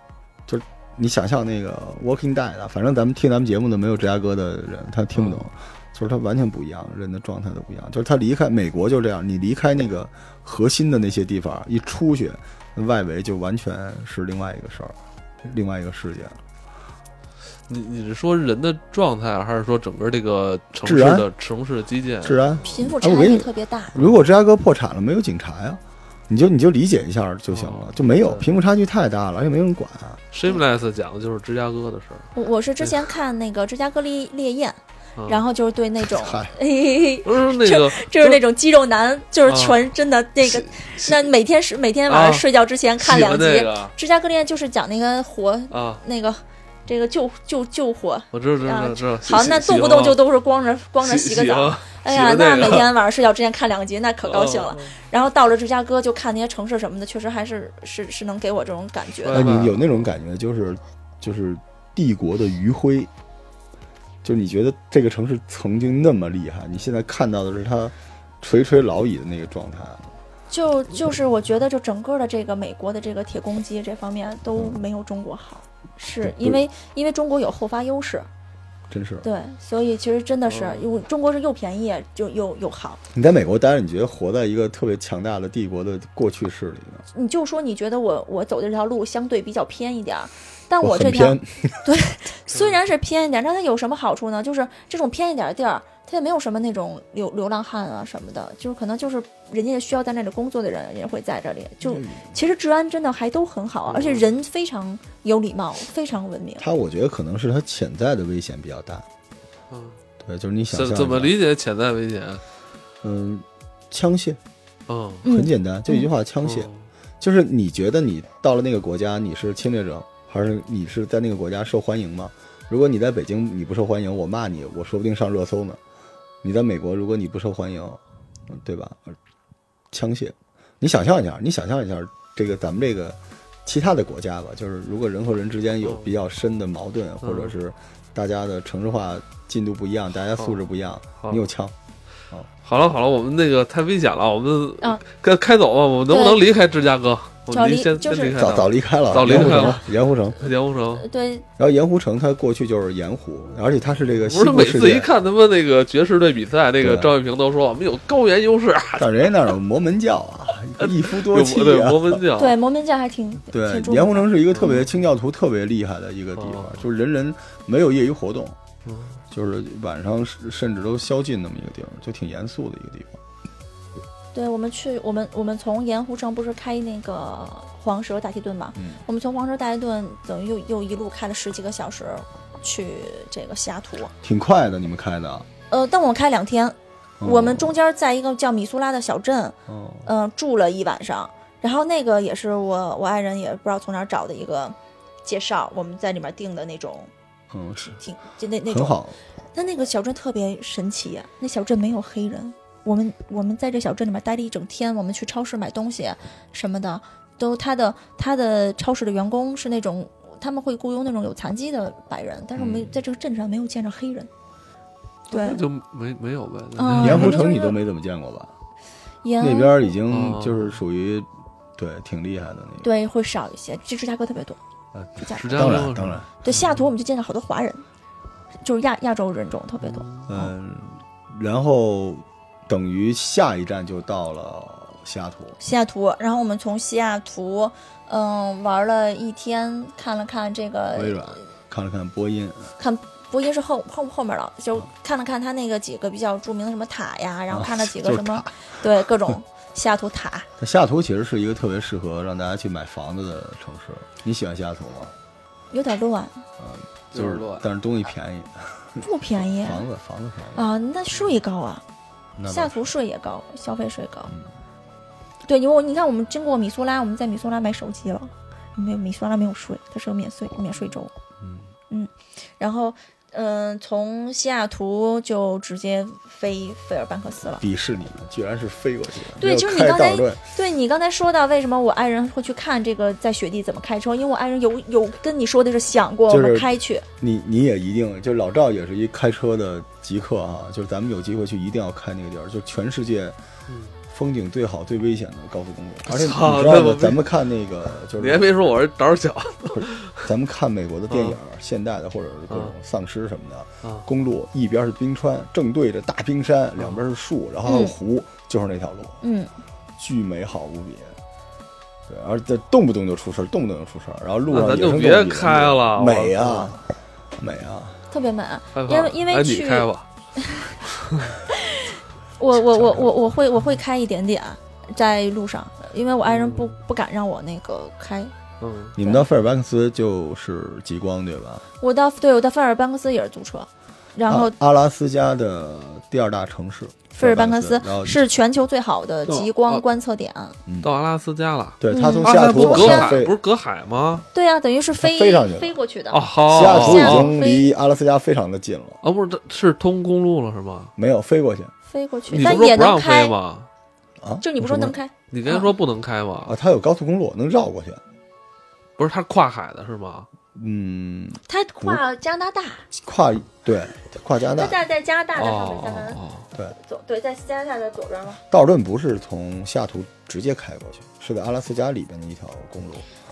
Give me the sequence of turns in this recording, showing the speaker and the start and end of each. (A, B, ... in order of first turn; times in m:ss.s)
0:00.5-0:16.4 A
0:05.2-0:05.5 B
0:17.7-0:22.7 B
0:20.8-0:21.3 A
0:22.2-0:30.2 A
0:22.7-0:24.0 C
0:24.0-0:24.2 B
0:27.5-0:28.5 B
0:30.3-0:32.3 B
0:32.4-0:59.6 C
0:32.8-0:33.1 B
0:35.2-0:35.4 B
0:36.0-0:36.6 A
0:37.2-0:38.4 B
0:39.5-0:39.8 B
0:40.4-0:41.3 B
0:42.1-0:42.5 B
0:43.0-0:43.9 B
0:45.7-0:46.0 B
0:48.3-0:50.2 B
0:51.0-0:52.9 B
0:54.2-0:54.9 B
0:59.2-1:00.1 B
0:59.3-1:03.1 A
1:04.2-1:10.1 A
1:10.5-1:18.3 C
1:16.2-1:16.6 A
1:18.9-1:19.3 A
1:19.2-1:23.0 C
1:20.5-1:20.9 B
1:23.1-1:27.0 A
1:27.1-1:46.6 C
1:30.8-1:31.8 A
1:41.9-1:42.2 A
1:43.9-1:44.3 B
1:46.6-1:49.1 A
1:49.7-1:50.0 B
1:50.2-1:51.3 A
1:50.7-1:52.4 B
1:53.0-1:54.4 A
1:54.9-1:55.3 B
1:55.2-1:56.1 C
1:55.3-1:56.7 A
1:56.4-1:56.9 B
1:57.2-2:05.8 A
2:06.4-2:09.2 A
2:09.9-2:21.8 A
2:17.2-2:17.6 B
2:21.2-2:21.5 B
2:22.6-2:31.1 B
2:26.1-2:26.4 C
2:27.5-2:28.4 C
2:28.4-2:30.4 A
2:29.3-2:29.8 C
2:31.0-2:31.5 C
2:31.6-2:35.1 A
2:34.2-2:39.3 B
2:36.8-2:37.2 A
2:39.0-2:42.2 A
2:40.8-2:42.6 B
2:42.4-2:44.8 C
2:43.5-2:48.6 A
2:44.5-2:44.9 B
2:46.4-2:46.8 B
2:48.9-2:49.2 B
2:49.3-2:53.2 A
2:54.3-3:04.1 C
2:58.8-2:59.0 A
3:04.2-3:05.5 A
3:05.7-3:17.1 C
3:07.2-3:07.8 A
3:09.7-3:10.1 A
3:17.5-3:18.0 A
3:18.0-3:19.0 C
3:18.7-3:19.2 A
3:19.5-3:34.3 C
3:32.6-3:33.0 A
3:35.3-3:35.6 C
3:35.3-3:37.4 B
3:36.8-3:37.8 C
3:37.0-3:38.5 A
3:39.2-3:39.9 C
3:39.4-3:42.9 A
3:40.1-3:40.8 B
3:42.8-3:44.6 C
3:45.0-3:46.3 A
3:45.2-3:45.7 C
3:45.4-3:46.8 B
3:46.4-3:47.8 C
3:48.6-3:50.5 C
3:49.8-3:50.3 B
3:50.3-3:55.6 A
3:55.6-4:01.4 C
4:01.0-4:02.7 A
4:02.8-4:10.5 C
4:07.5-4:08.6 A
4:10.6-4:15.1 A
4:15.7-4:16.4 C
4:16.6-4:19.0 A
4:17.1-4:17.7 B
4:19.0-4:19.8 C
4:19.6-4:20.7 A
4:20.6-4:21.8 C
4:22.4-4:22.9 A
4:22.5-4:24.3 C
4:25.4-4:31.1 C
4:31.4-4:31.7 A
4:31.9-4:37.6 C
4:37.6-4:40.4 A
4:39.4-4:47.1 C
4:46.3-4:53.4 A
4:53.7-4:54.0 B
4:54.1-4:58.5 A
4:56.1-4:57.2 B
4:58.2-5:00.3 B
4:59.7-5:09.2 A
5:01.1-5:01.4 B
5:02.5-5:02.8 B
5:07.6-5:08.0 C
5:09.2-5:09.5 C
5:10.0-5:11.2 A
5:12.1-5:16.8 A
5:14.5-5:16.8 B
5:17.4-5:18.0 A
5:18.1-5:20.7 C
5:18.8-5:20.1 B
5:20.8-5:21.4 B
5:21.5-5:28.3 C
5:22.5-5:23.1 A
5:26.3-5:26.8 B
5:28.6-5:29.0 B
5:29.0-5:31.7 A
5:29.0-5:29.2 C
5:31.8-5:34.6 C
5:34.3-5:38.2 A
5:37.1-5:40.6 C
5:39.3-5:39.8 B
5:40.8-5:44.3 B
5:41.8-5:43.4 A
5:41.9-5:43.2 C
5:44.3-5:47.7 C
5:45.0-5:45.7 A
5:46.1-5:47.3 B
5:46.5-5:49.0 A
5:49.0-5:50.9 B
5:51.0-5:51.7 A
5:51.9-5:53.4 C
5:52.3-5:53.7 B
5:54.2-5:55.0 A
5:54.4-5:55.7 C
5:55.3-5:56.6 B
5:56.4-5:58.0 A
5:59.0-6:00.3 B
6:00.5-6:02.0 A
6:01.5-6:02.9 C
6:02.9-6:04.8 A
6:04.6-6:06.2 C
6:05.4-6:06.5 B
6:06.8-6:08.4 C
6:08.5-6:13.1 A